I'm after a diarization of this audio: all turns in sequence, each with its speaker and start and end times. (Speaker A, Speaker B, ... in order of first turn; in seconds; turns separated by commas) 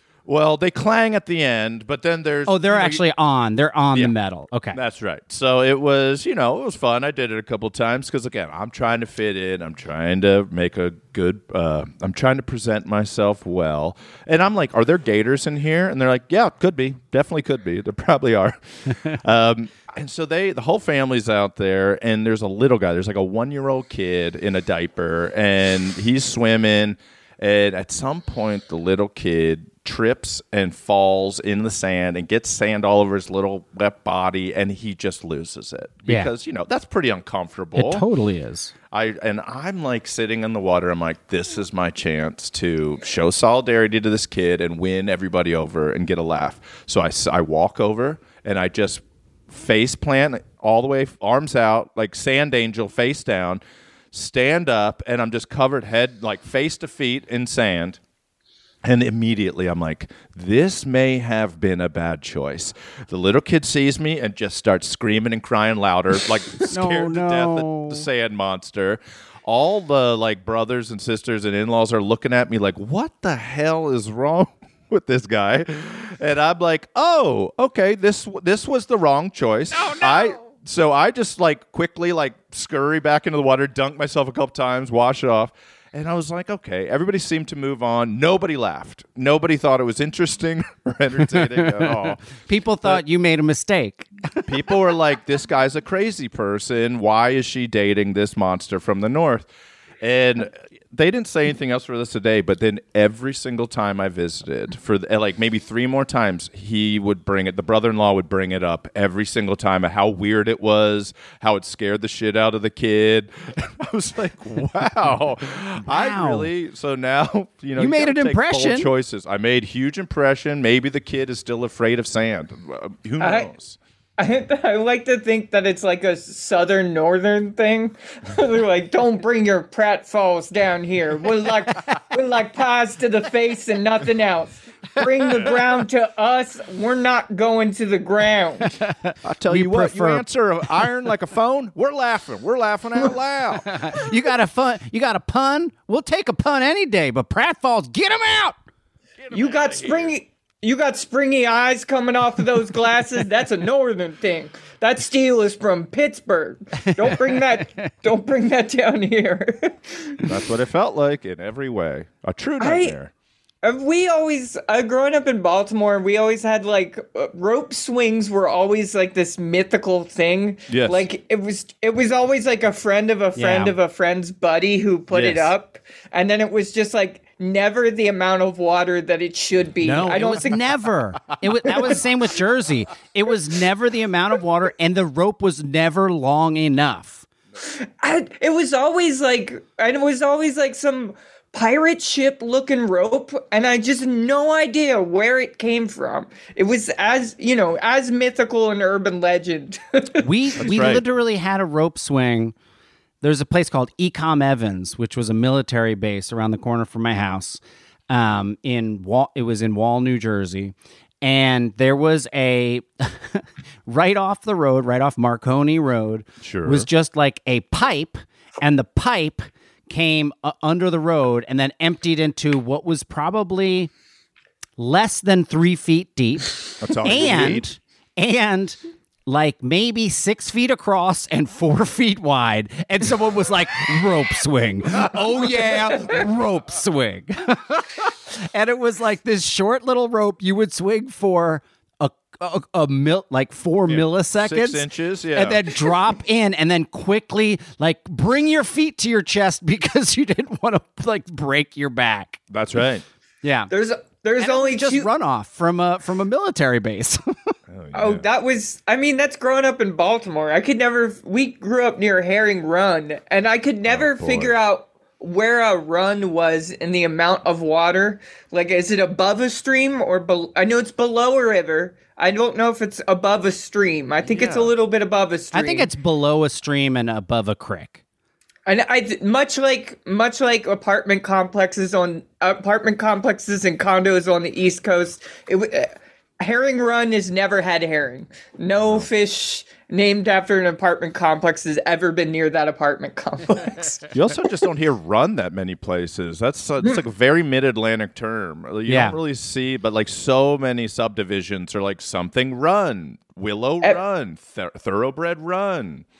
Speaker A: 0.2-3.0, Speaker B: 2.5-4.8, Speaker A: 4.7-38.0, Speaker B: 36.1-36.3, Speaker B: 37.8-38.7, Speaker A: 38.9-53.6, Speaker A: 54.1-58.0, Speaker A: 58.8-92.2, Speaker B: 66.7-68.1, Speaker B: 91.3-94.5, Speaker A: 94.5-99.5, Speaker A: 100.0-123.8, Speaker B: 115.8-116.5, Speaker B: 117.8-118.9, Speaker C: 123.2-123.5, Speaker C: 124.2-138.7, Speaker B: 138.7-140.2, Speaker A: 139.2-143.7, Speaker B: 143.7-148.6, Speaker A: 149.2-150.2, Speaker C: 149.3-160.2, Speaker B: 157.0-157.6, Speaker A: 160.2-163.1, Speaker C: 162.6-162.9, Speaker C: 163.6-180.7, Speaker A: 170.7-171.1, Speaker B: 173.3-173.8, Speaker A: 175.1-175.4, Speaker B: 179.8-187.2, Speaker C: 181.7-182.0, Speaker C: 187.6-200.3, Speaker B: 200.2-202.5, Speaker A: 200.6-201.0, Speaker B: 203.2-223.9, Speaker A: 216.4-216.9, Speaker B: 224.8-252.4, Speaker A: 226.8-227.7, Speaker A: 243.9-245.7, Speaker A: 252.5-253.0, Speaker B: 253.4-253.7, Speaker C: 253.7-255.1, Speaker B: 254.4-257.2, Speaker A: 257.7-258.2, Speaker C: 257.9-275.9, Speaker A: 263.9-264.5, Speaker A: 274.2-274.7, Speaker B: 275.5-278.0, Speaker C: 278.7-294.1, Speaker A: 288.8-289.1, Speaker A: 294.1-306.0, Speaker B: 298.9-299.2